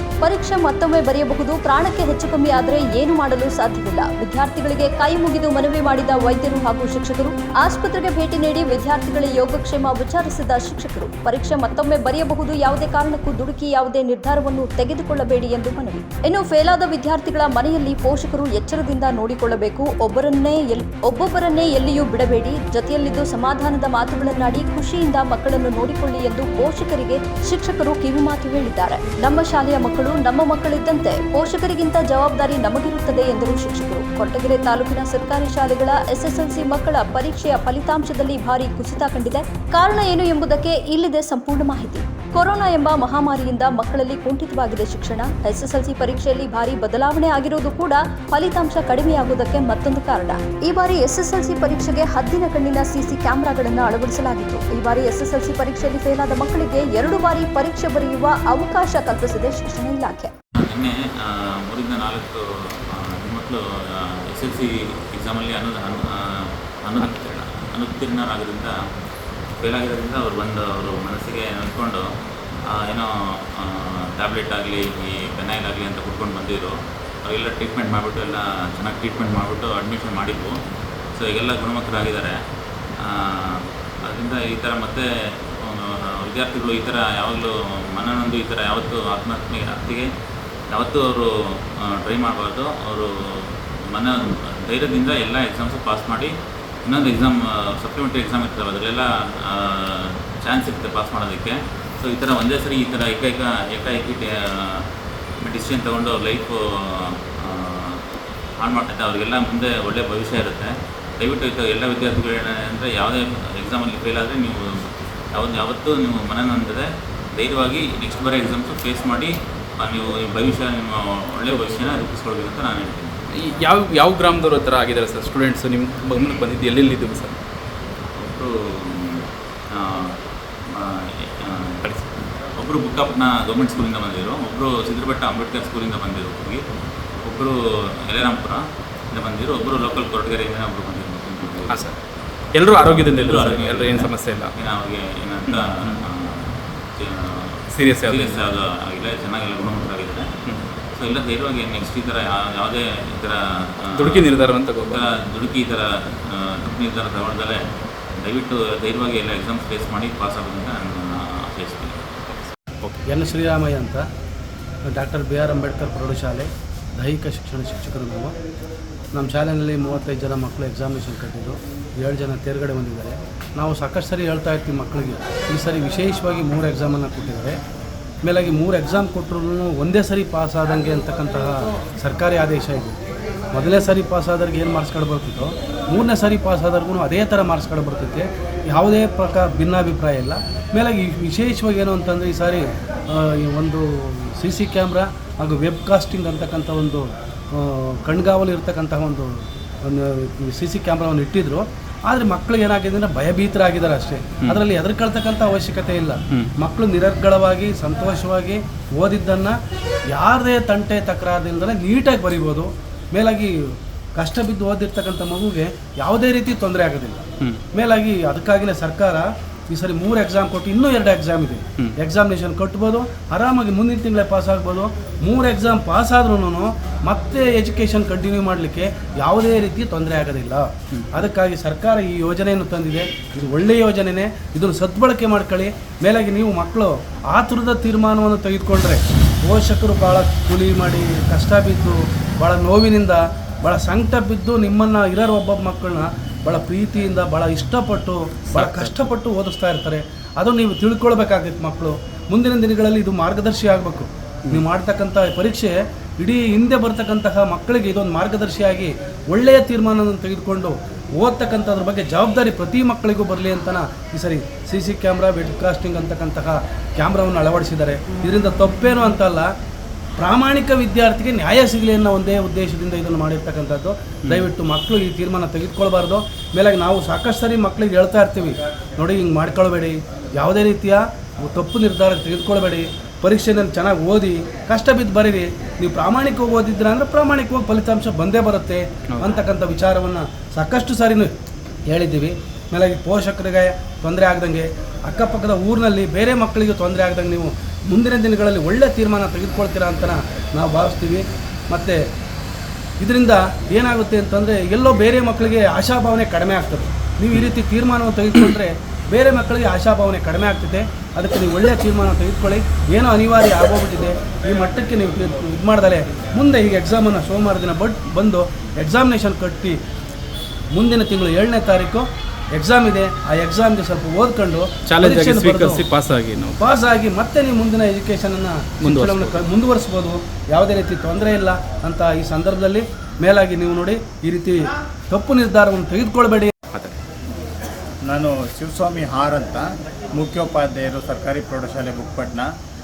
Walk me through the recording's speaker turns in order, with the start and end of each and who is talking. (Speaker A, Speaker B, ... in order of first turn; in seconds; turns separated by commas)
Speaker A: 0.2-60.3, Speaker B: 60.6-68.7, Speaker B: 69.6-72.1, Speaker B: 72.7-80.6, Speaker B: 81.2-82.4, Speaker B: 83.0-90.1, Speaker B: 90.7-96.3, Speaker B: 96.8-104.8, Speaker B: 105.4-108.0, Speaker B: 108.6-123.1, Speaker C: 123.3-127.4, Speaker B: 128.2-130.2, Speaker B: 130.7-136.6, Speaker B: 137.2-141.8, Speaker C: 141.7-141.9, Speaker C: 142.5-144.5, Speaker B: 142.7-150.3, Speaker C: 145.5-145.9, Speaker C: 147.7-148.4, Speaker B: 150.9-157.6, Speaker C: 153.9-155.0, Speaker B: 158.2-162.1, Speaker C: 162.7-163.0, Speaker D: 163.1-164.0, Speaker D: 164.8-168.3, Speaker D: 169.1-177.6, Speaker D: 178.2-183.0, Speaker D: 183.5-209.6, Speaker D: 210.1-269.5, Speaker C: 248.5-249.1, Speaker D: 270.2-291.3, Speaker C: 289.1-289.4, Speaker D: 291.9-302.0, Speaker D: 303.0-319.8, Speaker D: 320.7-325.9, Speaker C: 324.9-326.6, Speaker D: 326.6-336.5, Speaker C: 328.8-329.5, Speaker E: 338.0-342.5